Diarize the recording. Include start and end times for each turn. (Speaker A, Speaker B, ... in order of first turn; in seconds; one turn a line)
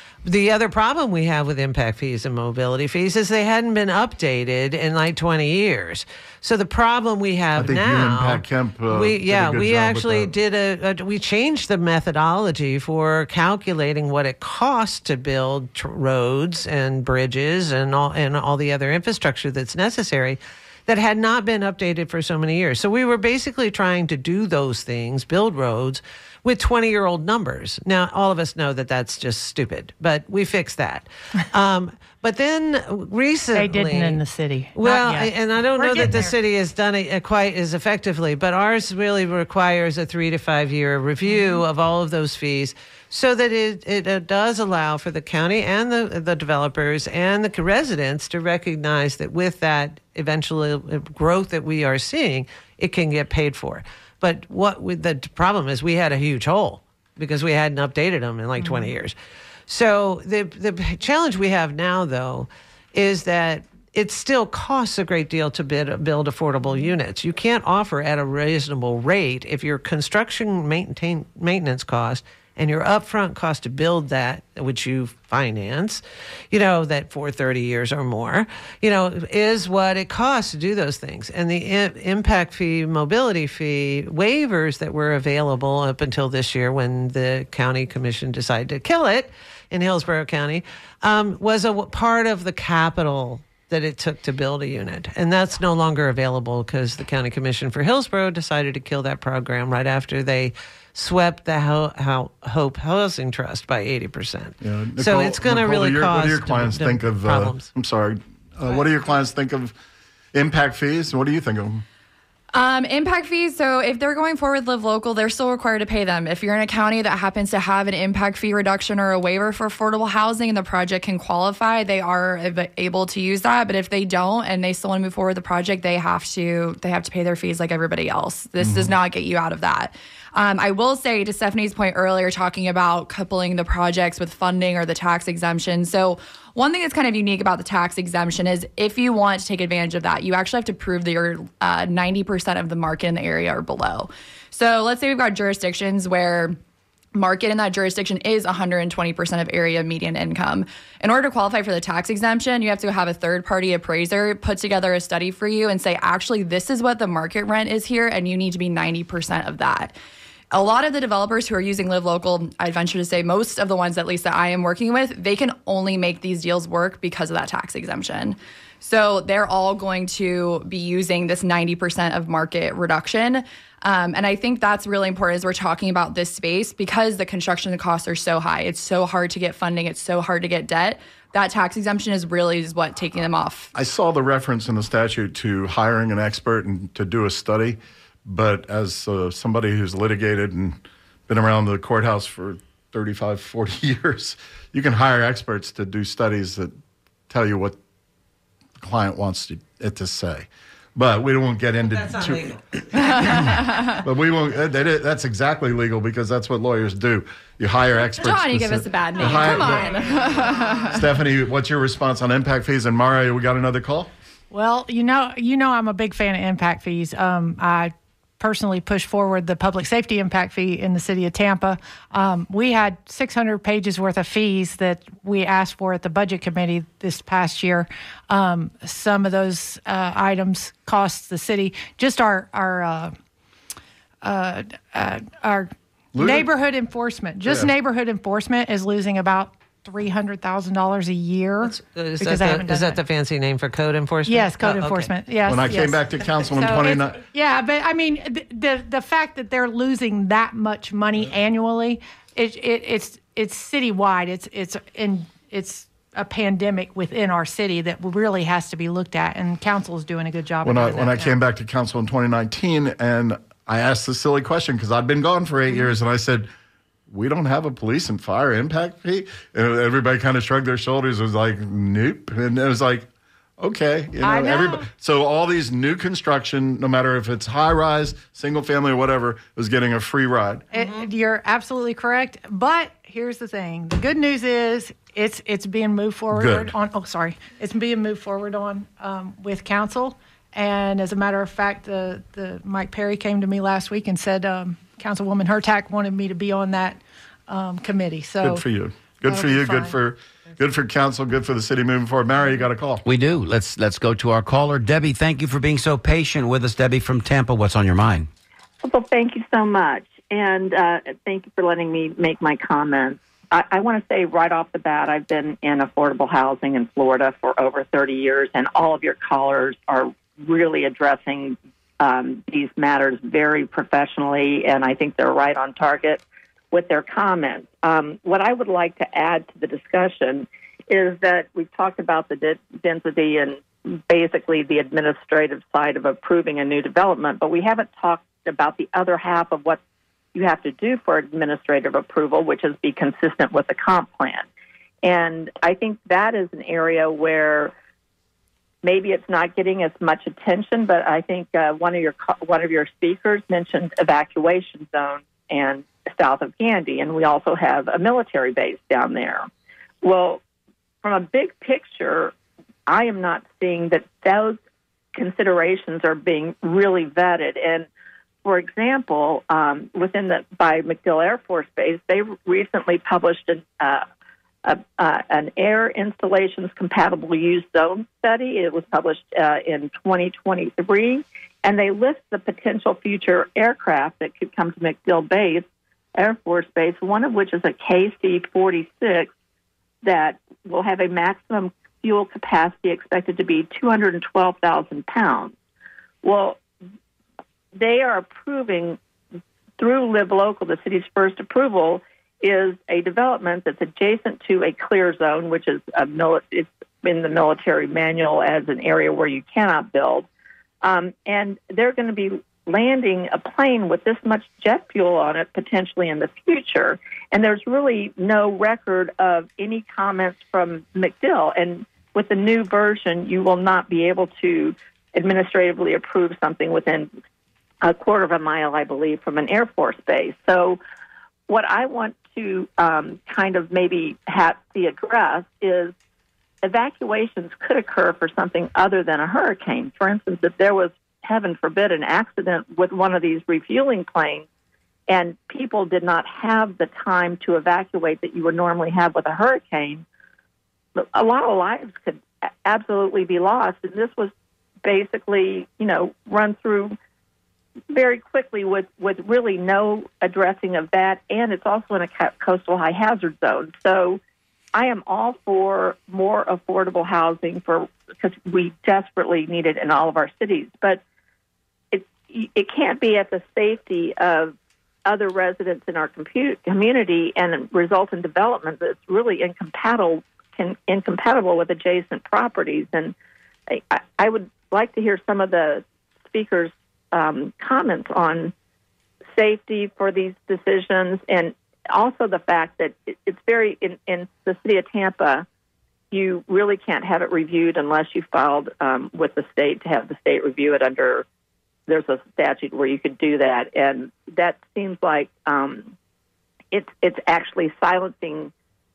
Speaker A: 0.2-34.2
Speaker B: 7.5-10.3
Speaker C: 33.5-36.3
Speaker A: 34.7-59.1
Speaker C: 41.2-41.6
Speaker C: 58.6-58.9
Speaker A: 59.7-107.7
Speaker B: 104.6-109.7
Speaker B: 110.3-111.8
Speaker D: 112.5-146.6
Speaker B: 128.6-128.9
Speaker D: 147.1-159.9
Speaker D: 160.5-183.7
Speaker B: 183.7-196.7
Speaker B: 197.3-197.8
Speaker B: 198.8-210.0
Speaker A: 201.9-203.3
Speaker D: 208.2-211.0
Speaker B: 210.9-214.1
Speaker C: 214.5-233.1
Speaker C: 234.2-243.0
Speaker B: 236.1-236.5
Speaker B: 237.4-237.7
Speaker A: 241.6-245.1
Speaker C: 244.2-261.3
Speaker B: 245.5-247.2
Speaker B: 260.6-266.5
Speaker B: 267.1-280.6
Speaker C: 274.2-274.9
Speaker C: 280.7-298.6
Speaker B: 286.3-286.7
Speaker B: 298.4-303.0
Speaker C: 299.2-299.9
Speaker E: 303.0-308.3
Speaker F: 308.8-339.8
Speaker F: 340.3-344.4
Speaker F: 345.0-347.7
Speaker F: 348.8-359.5
Speaker F: 360.0-360.4
Speaker F: 361.0-362.3
Speaker F: 362.9-364.6
Speaker F: 365.1-367.9
Speaker F: 368.4-374.0
Speaker F: 374.6-385.6
Speaker F: 386.1-389.3
Speaker F: 390.0-395.5
Speaker F: 396.2-396.6
Speaker F: 397.8-399.0
Speaker F: 399.8-410.3
Speaker F: 410.8-427.1
Speaker F: 427.8-430.8
Speaker F: 431.5-435.9
Speaker F: 436.6-444.4
Speaker F: 445.1-450.0
Speaker F: 451.0-454.3
Speaker F: 454.8-456.9
Speaker F: 457.9-464.2
Speaker F: 464.7-471.0
Speaker F: 471.9-474.5
Speaker F: 475.1-483.1
Speaker F: 483.7-488.5
Speaker F: 489.4-495.4
Speaker F: 496.1-501.2
Speaker F: 501.9-505.9
Speaker F: 506.7-508.5